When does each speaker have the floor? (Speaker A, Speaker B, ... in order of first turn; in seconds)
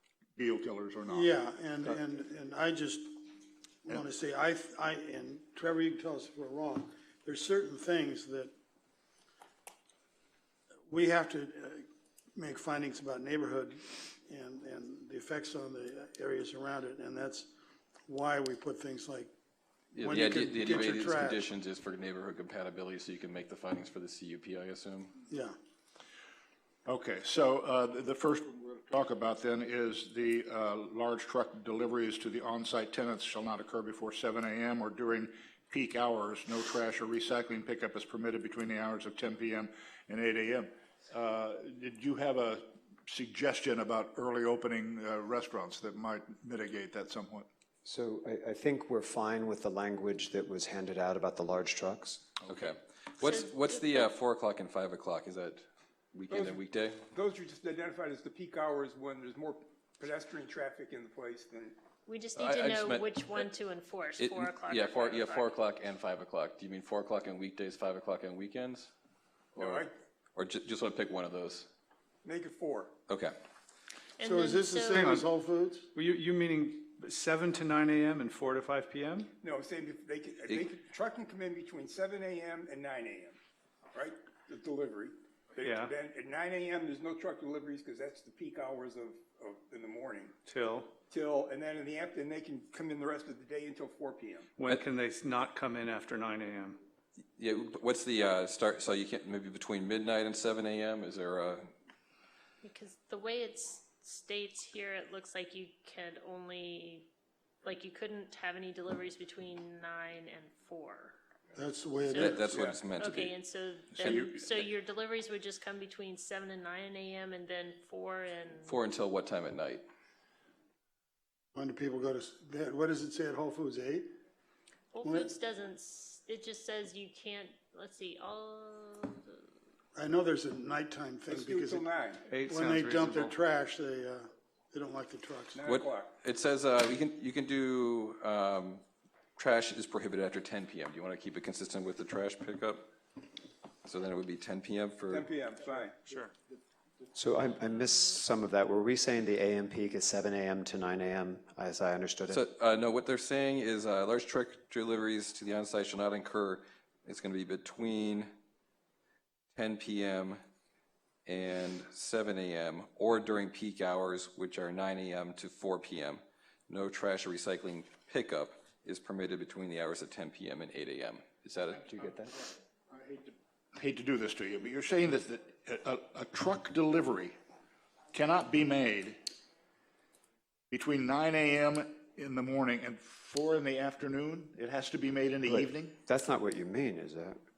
Speaker A: 0.3-1.3, 26.9-47.5, 172.9-177.4, 178.1-179.2, 180.7-185.9
Speaker B: 1.1-3.2, 3.8-8.5, 10.9-17.5, 18.1-19.3, 20.0-21.5, 25.3-25.5, 74.2-75.9, 111.5-112.5, 121.5-124.1, 125.0-125.3, 129.9-131.9, 132.4-135.6
Speaker C: 19.9-25.1, 52.5-57.0, 62.4-63.5, 64.2-68.9, 69.5-71.7, 73.1-73.3, 97.4-101.7, 112.1-113.3, 114.0-114.7, 118.7-119.8, 135.7-138.8, 139.4-142.9, 143.8-145.3, 152.3-158.3, 159.5-160.4, 161.2-171.8
Speaker D: 47.8-52.3, 147.1-152.4, 171.8-172.3, 185.4-187.4
Speaker E: 53.2-54.1, 62.0-65.5, 74.2-75.0, 102.6-107.1, 107.6-111.2, 112.9-118.8, 124.9-129.5
Speaker F: 56.3-61.8, 69.6-69.9, 72.2-72.9, 79.4-83.4, 83.9-90.3, 91.1-94.5, 112.4-112.8, 131.3-132.2, 135.5-136.1, 145.1-146.0
Speaker G: 74.9-75.3, 75.9-79.3, 85.6-85.9, 90.5-90.9, 94.6-96.8, 132.3-133.3, 146.0-146.3